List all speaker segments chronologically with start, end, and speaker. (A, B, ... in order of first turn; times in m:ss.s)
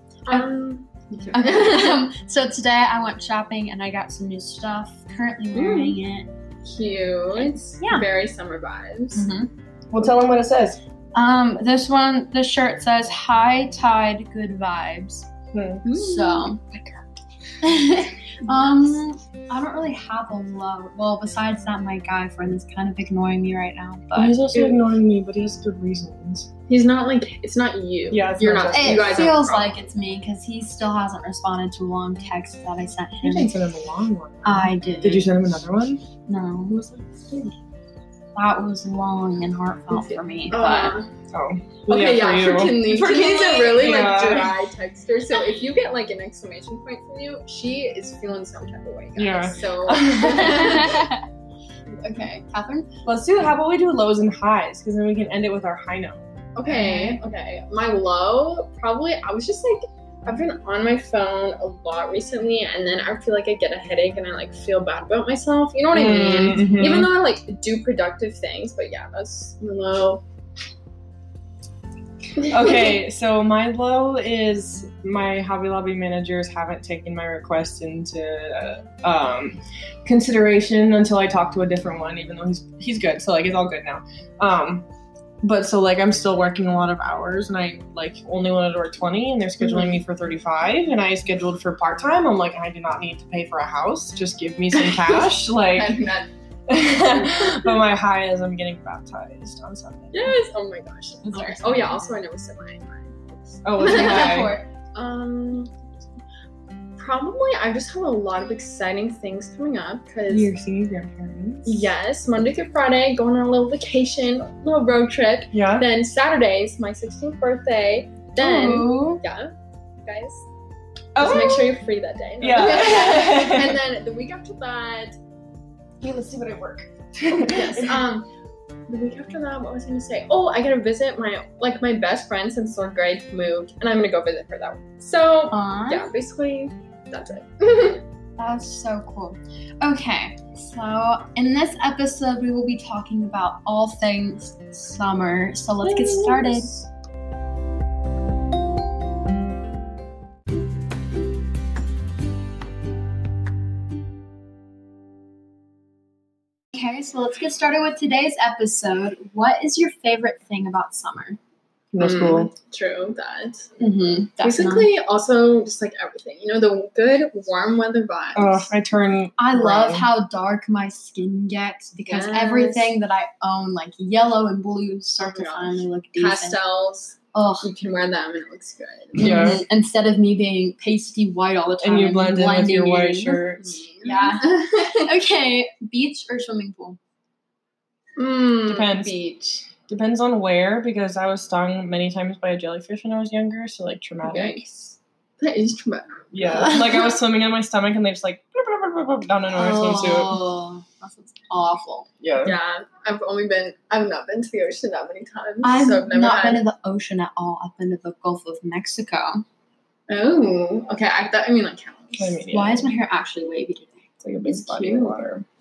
0:00.3-0:02.1 A
0:01.3-0:06.3 B
0:05.5-0:06.0 A
0:06.6-0:09.3 A
0:07.8-0:08.0 B
0:09.1-0:09.5 B
0:09.9-0:10.8 C
0:11.1-0:15.3 B
0:15.5-0:15.8 C
0:15.8-0:16.5 A
0:15.9-0:16.6 B
0:16.7-0:17.0 C
0:17.6-0:24.4 B
0:24.1-0:26.5 C
0:26.7-0:29.8 A
0:28.1-0:29.3 C
0:28.7-0:33.5 B
0:33.2-0:36.0 C
0:34.4-0:35.3 B
0:36.3-0:36.8 B
0:36.7-0:37.5 C
0:38.3-0:41.0 B
0:40.5-0:41.1 A
0:41.3-0:44.5 C
0:41.9-0:51.1 A
0:49.2-0:51.0 C
0:50.5-0:51.2 B
0:52.0-0:52.9 B
0:53.0-0:56.2 C
0:56.6-1:10.2 A
0:56.7-0:57.2 B
1:05.9-1:07.1 C
1:12.4-1:24.9 C
1:25.4-1:36.0 C
1:29.6-1:30.0 A
1:34.8-1:36.3 A
1:36.7-1:40.3 C
1:40.1-1:45.7 A
1:41.2-1:42.0 B
1:43.6-1:44.5 C
1:43.8-1:44.7 B
1:47.0-1:50.5 A
1:50.3-1:51.9 C
1:51.6-2:00.4 A
1:55.5-1:55.9 C
1:58.4-1:59.2 B
2:01.1-2:01.8 C
2:01.2-2:05.1 A
2:02.4-2:03.8 C
2:06.0-2:08.0 C
2:07.3-2:08.3 A
2:08.9-2:18.0 A
2:15.5-2:16.1 B
2:18.4-2:26.7 B
2:26.0-2:26.6 A
2:36.7-2:41.4 B
2:41.9-2:42.5 C
2:42.0-2:43.7 A
2:43.8-2:44.9 B
2:44.4-2:48.7 A
2:48.3-2:50.1 C
2:49.4-2:56.7 B
2:52.0-2:52.9 A
2:55.2-2:59.6 A
2:57.3-2:57.7 B
2:59.2-3:03.4 B
2:59.2-2:59.6 C
3:01.8-3:03.8 C
3:03.6-3:05.1 A
3:04.0-3:07.0 B
3:08.2-3:09.6 A
3:08.6-3:09.2 C
3:09.8-3:14.6 C
3:14.2-3:16.8 A
3:16.3-3:20.4 C
3:19.5-3:22.1 B
3:22.2-3:22.6 C
3:22.4-3:26.6 A
3:25.6-3:29.4 B
3:30.1-3:32.4 A
3:32.1-3:32.9 C
3:32.5-3:34.0 B
3:34.2-3:35.4 C
3:34.4-3:35.2 A